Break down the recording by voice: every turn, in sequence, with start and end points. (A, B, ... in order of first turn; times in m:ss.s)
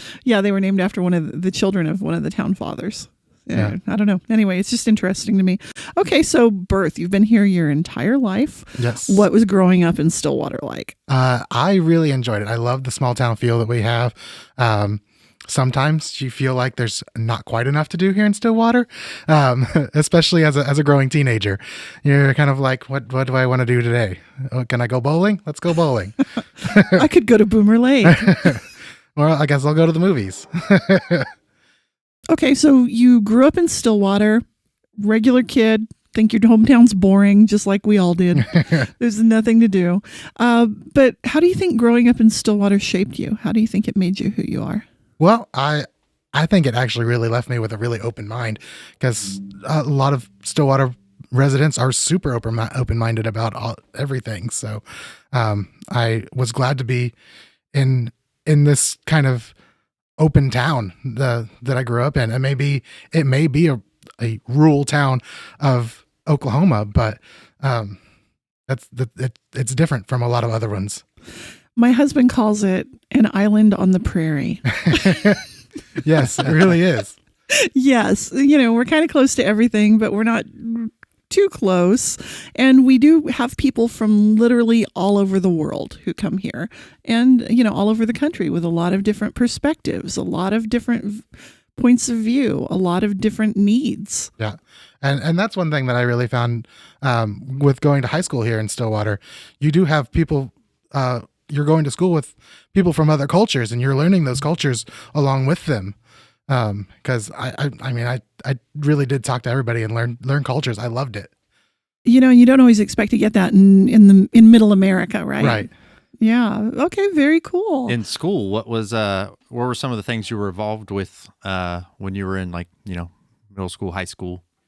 0:00.2-0:11.0 A
0:08.8-0:09.3 B
0:11.1-0:27.0 B
0:26.9-0:28.5 A
0:28.0-0:28.6 B
0:29.2-0:31.3 B
0:32.3-0:34.4 A
0:35.0-0:44.8 A
0:38.3-0:38.9 B
0:45.2-0:57.1 B
0:57.7-0:59.5 B
1:00.2-1:08.0 B
1:08.7-1:11.0 B
1:11.8-1:15.4 A
1:14.9-1:15.4 B
1:16.0-1:17.2 B
1:16.3-1:16.8 A
1:17.5-1:31.3 A
1:31.8-1:34.3 A
1:34.4-1:46.0 B
1:46.5-1:51.3 B
1:52.0-1:55.7 A
1:55.4-1:55.7 B
1:56.2-1:58.0 A
1:57.9-2:04.4 C